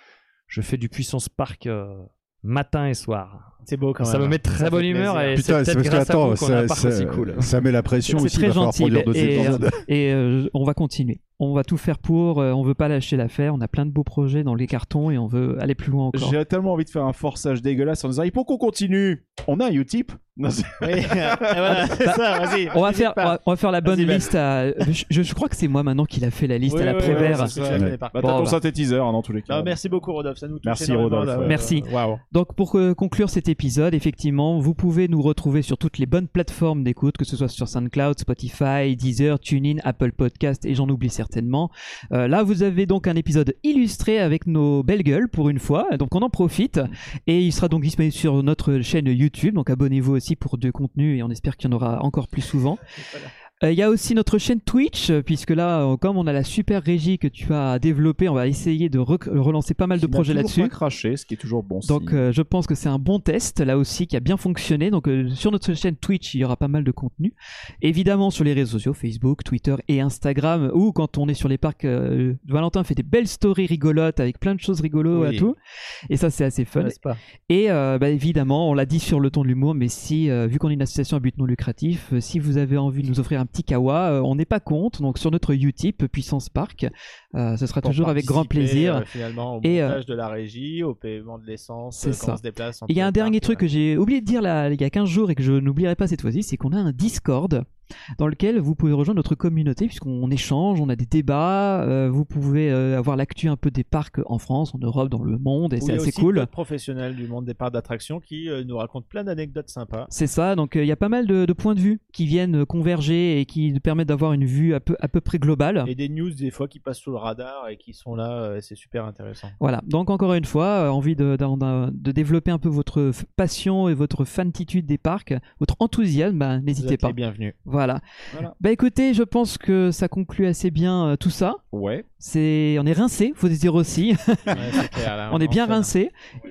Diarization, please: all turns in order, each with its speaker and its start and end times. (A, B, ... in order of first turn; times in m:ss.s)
0:00.5-0:07.6 A
0:03.6-0:05.4 B
0:05.3-0:09.8 C
0:08.1-0:16.4 D
0:16.1-0:21.9 E
0:20.8-0:23.4 B
0:22.0-0:27.6 D
0:23.9-0:24.3 E
0:26.7-0:28.5 B
0:27.0-0:29.8 E
0:27.7-0:28.0 C
0:28.2-0:28.6 D
0:29.5-0:32.2 B
0:30.6-0:31.6 E
0:31.4-0:52.8 D
0:53.0-0:53.3 B
0:53.6-1:00.7 D
1:00.0-1:02.2 E
1:01.8-1:15.6 D
1:15.1-1:15.5 B
1:16.1-1:17.0 D
1:16.8-1:17.2 B
1:17.5-1:29.1 D
1:27.8-1:33.6 B
1:29.6-1:30.0 D
1:32.0-1:37.7 D
1:38.2-1:46.5 D
1:45.8-1:50.1 B
1:50.1-1:55.9 D
1:55.8-1:59.6 B
1:59.6-2:08.0 D
2:06.8-2:07.6 B
2:08.6-2:11.6 D
2:11.7-2:12.1 E
2:12.2-2:16.1 D
2:14.5-2:15.9 B